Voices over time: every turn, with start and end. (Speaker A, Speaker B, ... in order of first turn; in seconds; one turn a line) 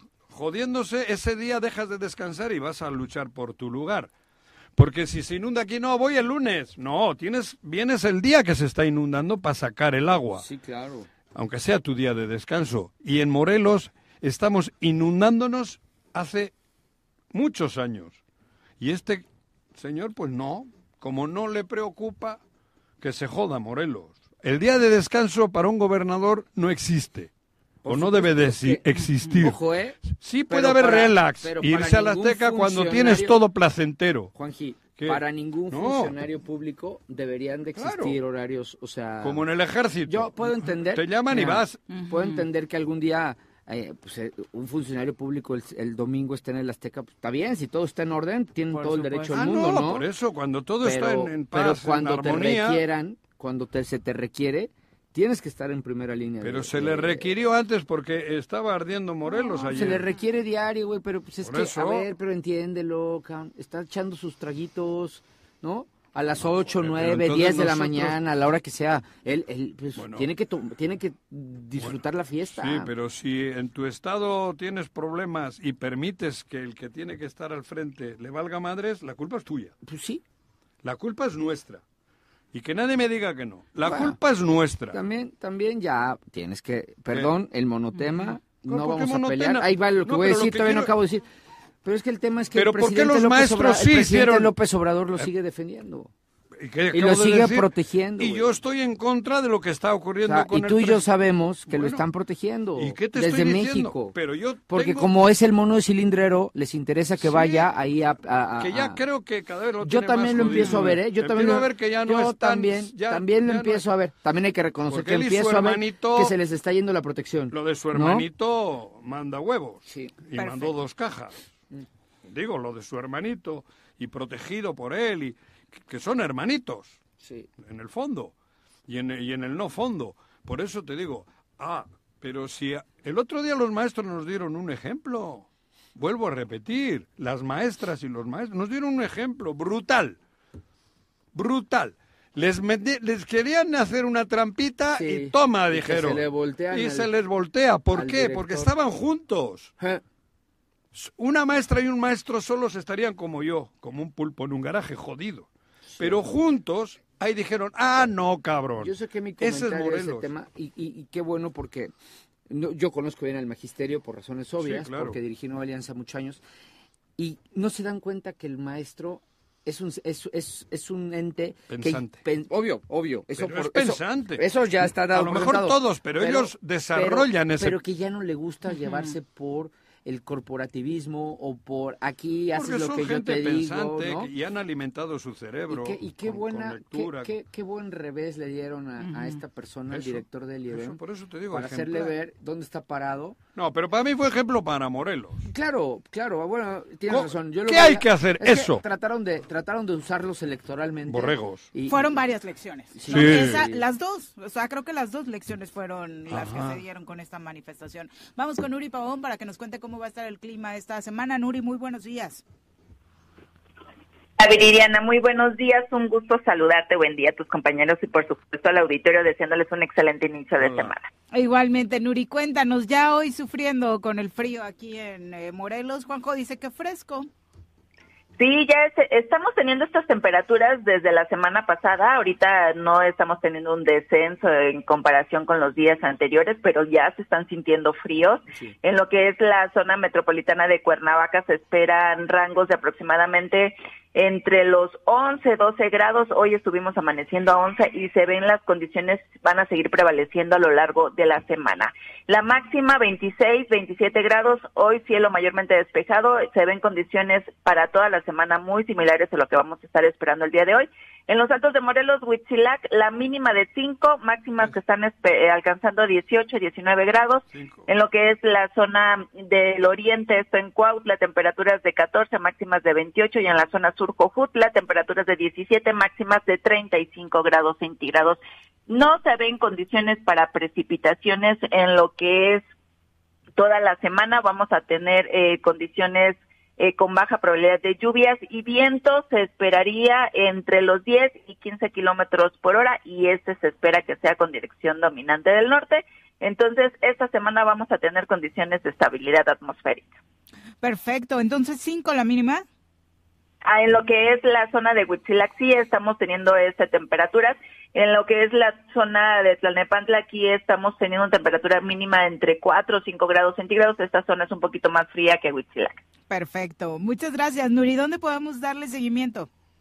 Speaker A: 0.3-4.1
Speaker A: 4.8-10.4
Speaker B: 10.3-11.1
Speaker A: 11.3-16.5
Speaker A: 17.3-18.2
Speaker A: 18.8-22.4
Speaker A: 23.0-27.3
Speaker B: 27.8-33.4
Speaker A: 27.9-34.3
Speaker B: 34.3-39.5
Speaker A: 35.0-36.1
Speaker A: 37.8-38.2
Speaker A: 39.2-41.8
Speaker B: 40.0-50.1
Speaker C: 41.9-42.4
Speaker C: 48.7-49.5
Speaker A: 49.3-52.8
Speaker B: 50.8-57.3
Speaker A: 56.4-60.1
Speaker C: 59.4-60.0
Speaker B: 59.7-72.9
Speaker A: 61.4-62.1
Speaker A: 66.4-68.2
Speaker A: 70.0-70.3
Speaker A: 72.5-79.7
Speaker B: 79.8-80.2
Speaker A: 80.8-81.8
Speaker A: 82.5-85.0
Speaker B: 83.8-84.2
Speaker B: 84.9-91.2
Speaker A: 88.6-90.9
Speaker B: 91.8-96.1
Speaker A: 92.5-94.5
Speaker A: 96.6-101.0
Speaker B: 96.9-98.5
Speaker B: 100.2-104.2
Speaker A: 101.7-102.0
Speaker A: 102.8-105.1
Speaker B: 104.7-109.0
Speaker A: 107.2-107.7
Speaker A: 108.6-113.8
Speaker B: 109.8-118.2
Speaker A: 114.9-116.3
Speaker A: 117.5-121.4
Speaker B: 119.9-120.2
Speaker C: 120.3-120.7
Speaker A: 122.2-127.0
Speaker B: 127.2-127.5
Speaker A: 127.6-128.3
Speaker A: 128.9-140.2
Speaker A: 141.3-149.7
Speaker B: 144.9-147.1
Speaker B: 147.9-148.7
Speaker A: 150.9-160.3
Speaker B: 155.9-156.2
Speaker B: 158.8-161.9
Speaker B: 162.5-166.4
Speaker A: 164.6-165.2
Speaker B: 167.2-184.3
Speaker A: 171.7-172.2
Speaker A: 173.4-177.8
Speaker C: 178.7-179.1
Speaker A: 182.5-187.3
Speaker B: 185.7-193.4
Speaker C: 189.0-189.4
Speaker A: 189.9-192.1
Speaker A: 193.6-195.4
Speaker B: 195.4-202.2
Speaker A: 197.1-198.8
Speaker A: 201.1-201.7
Speaker C: 201.9-212.4
Speaker B: 202.9-203.8
Speaker A: 203.1-203.6
Speaker A: 206.3-206.8
Speaker D: 214.4-221.1
Speaker A: 220.6-220.9
Speaker C: 221.3-227.3
Speaker D: 228.4-282.6
Speaker A: 267.5-267.9
Speaker D: 283.6-300.1
Speaker C: 300.8-302.6
Speaker D: 303.6-316.0
Speaker C: 316.3-319.5